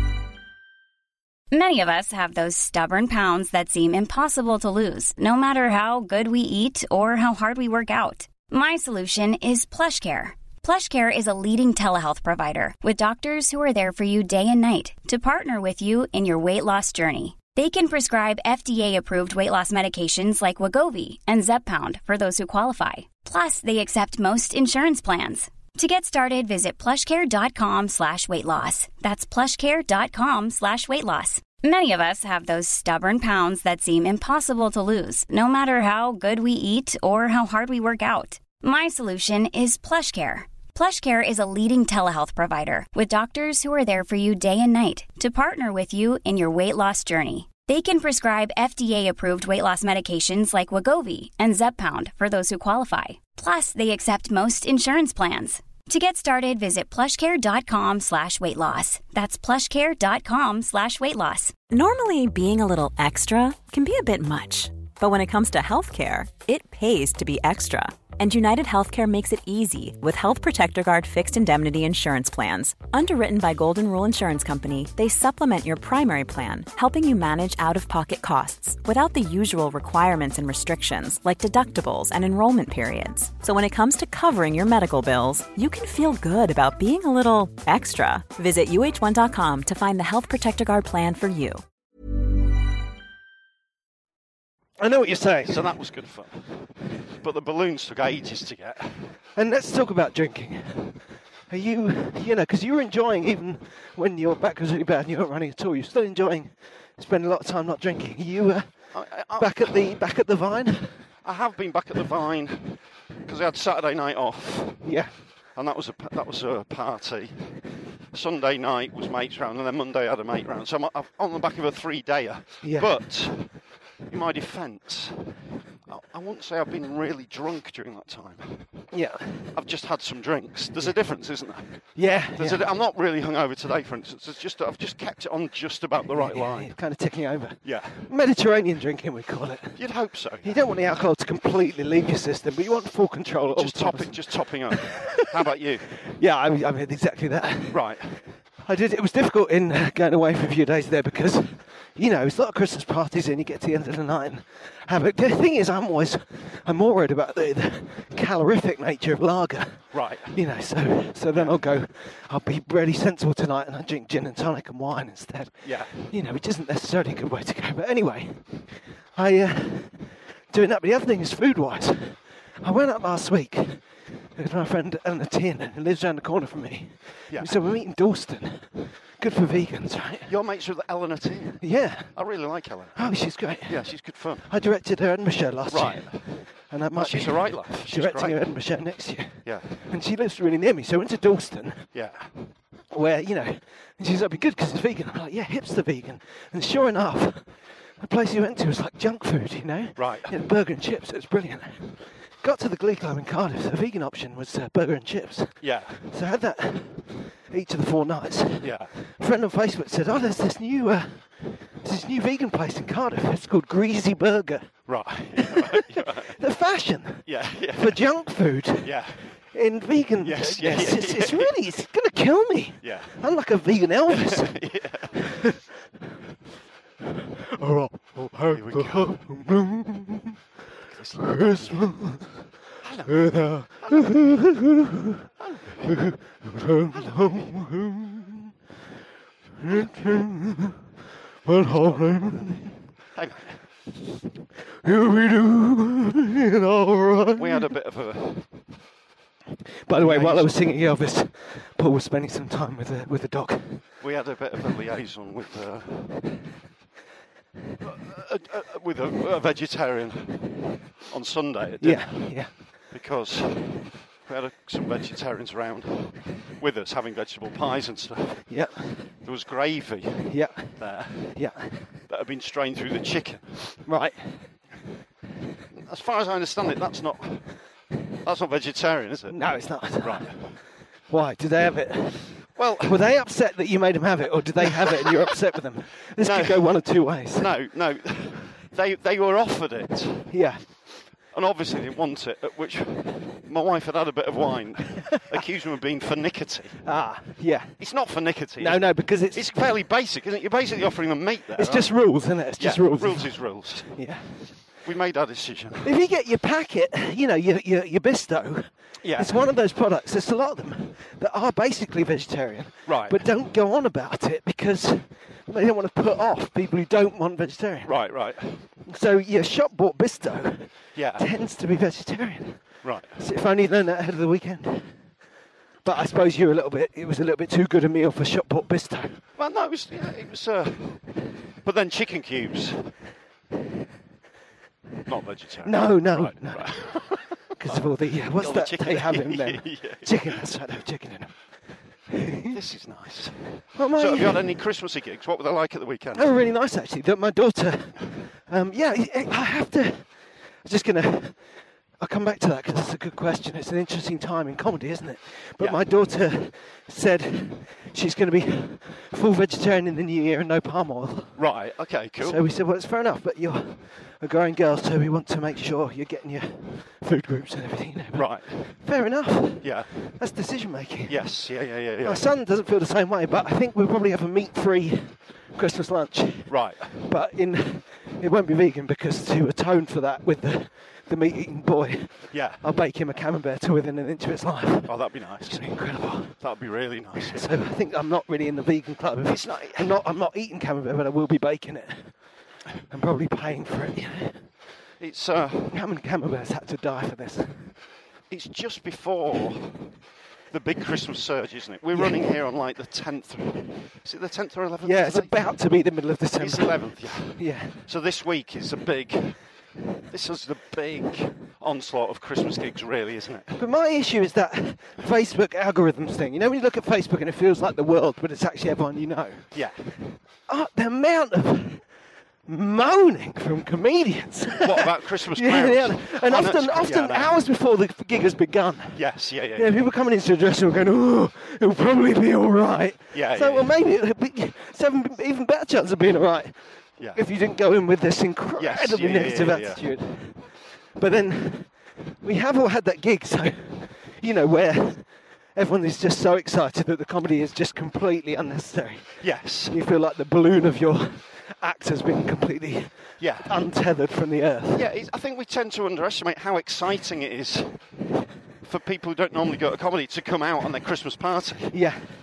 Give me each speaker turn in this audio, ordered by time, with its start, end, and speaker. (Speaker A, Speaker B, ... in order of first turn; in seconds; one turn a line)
Speaker A: 1.5-61.5
Speaker B: 61.7-91.6
Speaker C: 94.8-95.7
Speaker D: 95.4-96.5
Speaker D: 97.2-99.1
Speaker C: 99.3-101.0
Speaker C: 101.5-108.7
Speaker D: 108.9-109.7
Speaker C: 109.3-111.0
Speaker D: 111.2-114.8
Speaker C: 114.8-115.1
Speaker D: 115.5-117.5
Speaker D: 118.1-125.3
Speaker C: 122.6-122.9
Speaker D: 125.9-128.8
Speaker C: 128.9-129.5
Speaker D: 129.5-136.7
Speaker C: 131.9-132.7
Speaker C: 136.1-139.8
Speaker D: 137.6-138.0
Speaker D: 139.8-140.6
Speaker C: 140.4-145.5
Speaker D: 143.5-145.9
Speaker C: 146.1-147.8
Speaker D: 147.7-148.2
Speaker C: 148.6-168.4
Speaker D: 159.9-160.4
Speaker D: 161.3-161.6
Speaker D: 165.6-166.1
Speaker C: 169.2-173.8
Speaker C: 174.3-180.3
Speaker D: 180.3-183.1
Speaker C: 181.6-182.1
Speaker C: 182.9-183.9
Speaker D: 183.6-184.5
Speaker C: 184.4-186.1
Speaker D: 185.7-186.3
Speaker C: 186.7-191.9
Speaker D: 186.9-188.4
Speaker D: 189.4-189.8
Speaker D: 191.9-192.3
Speaker C: 192.9-197.4
Speaker C: 198.0-211.2
Speaker D: 200.0-200.3
Speaker D: 205.6-206.0
Speaker D: 208.6-208.9
Speaker C: 211.8-214.8
Speaker D: 214.9-216.4
Speaker C: 215.3-219.0
Speaker D: 217.2-218.1
Speaker D: 218.8-219.2
Speaker C: 219.5-224.6
Speaker D: 220.2-221.5
Speaker D: 222.8-223.1
Speaker D: 224.1-225.3
Speaker C: 225.1-225.6
Speaker C: 227.2-230.4
Speaker D: 228.5-229.3
Speaker D: 230.8-232.1
Speaker C: 231.2-232.3
Speaker D: 232.8-234.4
Speaker C: 233.1-235.2
Speaker D: 235.4-236.0
Speaker C: 235.8-238.5
Speaker D: 236.9-237.5
Speaker C: 239.6-240.8
Speaker D: 239.7-240.2
Speaker C: 241.4-242.7
Speaker D: 241.8-243.6
Speaker C: 244.8-247.7
Speaker D: 247.3-248.5
Speaker C: 249.9-253.8
Speaker D: 250.0-250.7
Speaker D: 254.0-256.2
Speaker D: 257.8-268.5
Speaker C: 261.8-262.5
Speaker C: 268.5-269.1
Speaker D: 269.2-271.4
Speaker C: 270.2-270.7
Speaker C: 271.3-271.8
Speaker D: 272.1-273.8
Speaker C: 273.9-274.4
Speaker D: 275.7-277.6
Speaker D: 278.2-279.4
Speaker C: 279.3-280.3
Speaker D: 280.0-280.6
Speaker C: 281.1-287.5
Speaker D: 282.6-283.0
Speaker D: 284.7-285.3
Speaker D: 286.2-290.3
Speaker C: 290.3-290.6
Speaker D: 291.3-296.8
Speaker C: 296.9-297.8
Speaker D: 297.8-301.9
Speaker C: 298.6-299.5
Speaker C: 301.5-303.4
Speaker D: 302.6-303.9
Speaker C: 303.9-304.2
Speaker D: 304.8-305.9
Speaker C: 305.8-317.9
Speaker D: 309.0-309.4
Speaker D: 312.9-313.2
Speaker D: 317.8-318.6
Speaker C: 318.9-322.6
Speaker D: 320.9-321.2
Speaker D: 322.8-323.1
Speaker C: 323.2-324.9
Speaker C: 325.8-329.2
Speaker D: 329.4-332.9
Speaker D: 335.0-340.4
Speaker C: 335.6-336.9
Speaker C: 337.6-341.3
Speaker C: 342.1-342.6
Speaker D: 342.4-343.4
Speaker C: 343.7-344.4
Speaker D: 343.9-346.4
Speaker C: 346.1-350.0
Speaker C: 350.6-351.4
Speaker C: 352.0-361.4
Speaker D: 361.4-362.4
Speaker C: 362.2-371.2
Speaker D: 368.1-368.8
Speaker D: 369.6-369.9
Speaker D: 371.1-372.2
Speaker C: 372.0-386.4
Speaker D: 376.5-377.0
Speaker D: 382.3-382.6
Speaker D: 384.9-385.7
Speaker D: 386.4-387.5
Speaker C: 387.2-392.1
Speaker D: 389.2-390.0
Speaker C: 392.9-394.4
Speaker D: 395.0-395.8
Speaker C: 395.7-397.7
Speaker D: 398.3-399.9
Speaker D: 400.5-405.5
Speaker C: 401.9-402.2
Speaker C: 404.8-407.8
Speaker D: 406.4-409.4
Speaker D: 410.1-413.6
Speaker C: 413.6-419.5
Speaker D: 419.5-419.9
Speaker C: 420.5-421.8
Speaker C: 422.5-429.0
Speaker D: 424.6-427.3
Speaker D: 428.9-429.8
Speaker C: 429.5-436.6
Speaker D: 433.1-433.7
Speaker C: 437.1-440.4
Speaker D: 438.6-439.8
Speaker C: 441.0-441.7
Speaker C: 442.2-452.9
Speaker D: 449.2-449.8
Speaker D: 453.2-453.6
Speaker C: 453.4-454.9
Speaker D: 454.7-457.8
Speaker D: 458.6-461.8
Speaker C: 461.7-462.0